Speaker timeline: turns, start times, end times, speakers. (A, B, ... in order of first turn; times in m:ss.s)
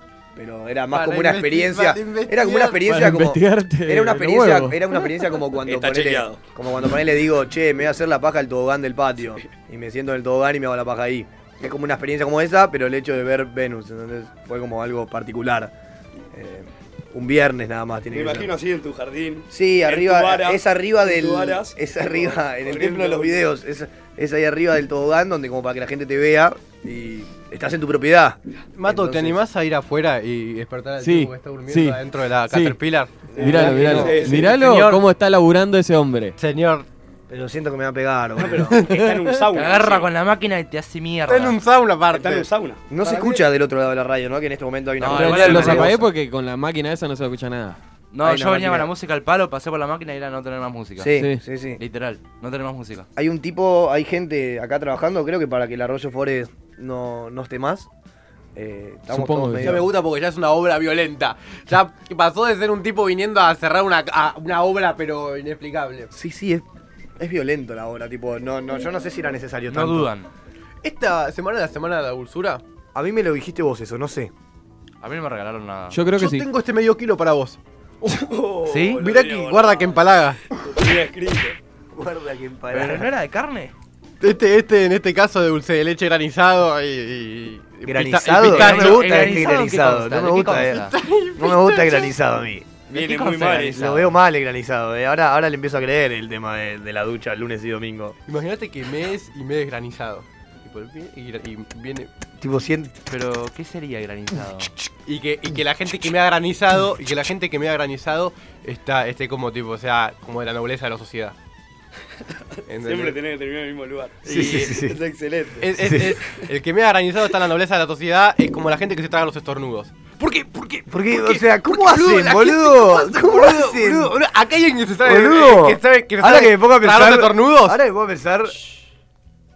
0:00.3-0:15.7 A
0:00.9-0:02.9 B
0:02.8-0:04.9 C
0:05.6-0:06.4 D
0:16.3-0:18.5 A
0:18.1-0:23.4 D
0:19.5-0:29.4 A
0:28.8-0:35.0 B
0:31.0-0:32.8 C
0:33.3-0:34.6 D
0:33.3-0:36.4 C
0:33.4-0:34.3 A
0:36.4-0:36.9 B
0:37.3-0:38.8 A
0:38.4-0:40.1 D
0:38.5-0:39.4 B
0:39.5-0:41.6 E
0:41.3-0:42.5 B
0:42.1-0:43.4 D
0:42.9-0:46.0 A
0:45.0-0:46.0 E
0:45.1-0:47.8 C
0:48.1-0:51.2 E
0:48.2-0:48.9 A
0:51.0-0:51.8 A
0:51.2-0:51.4 C
0:51.8-0:53.1 E
0:53.2-0:57.9 A
0:58.5-0:59.9 A
0:59.1-0:59.8 C
0:59.6-1:06.1 B
1:06.1-1:06.6 A
1:07.2-1:10.1 A
1:09.7-1:10.3 E
1:10.8-1:12.6 B
1:12.9-1:14.3 A
1:15.0-1:16.0 E
1:15.9-1:16.5 C
1:16.1-1:17.6 B
1:18.0-1:21.6 D
1:18.6-1:19.0 E
1:18.9-1:20.4 B
1:21.9-1:23.1 A
1:22.7-1:23.7 E
1:24.2-1:29.6 B
1:27.8-1:32.8 A
1:28.4-1:30.9 E
1:30.5-1:32.1 B
1:32.9-1:34.1 E
1:32.9-1:33.9 D
1:33.7-1:38.2 A
1:38.2-1:42.1 B
1:42.4-1:42.9 A
1:43.1-1:44.7 E
1:45.0-1:51.4 B
1:52.7-1:53.2 B
1:52.8-1:55.7 D
1:54.2-1:55.0 A
1:54.3-1:54.7 B
1:55.6-2:07.8 B
1:55.8-1:56.2 A
2:00.9-2:04.1 A
2:05.0-2:08.6 A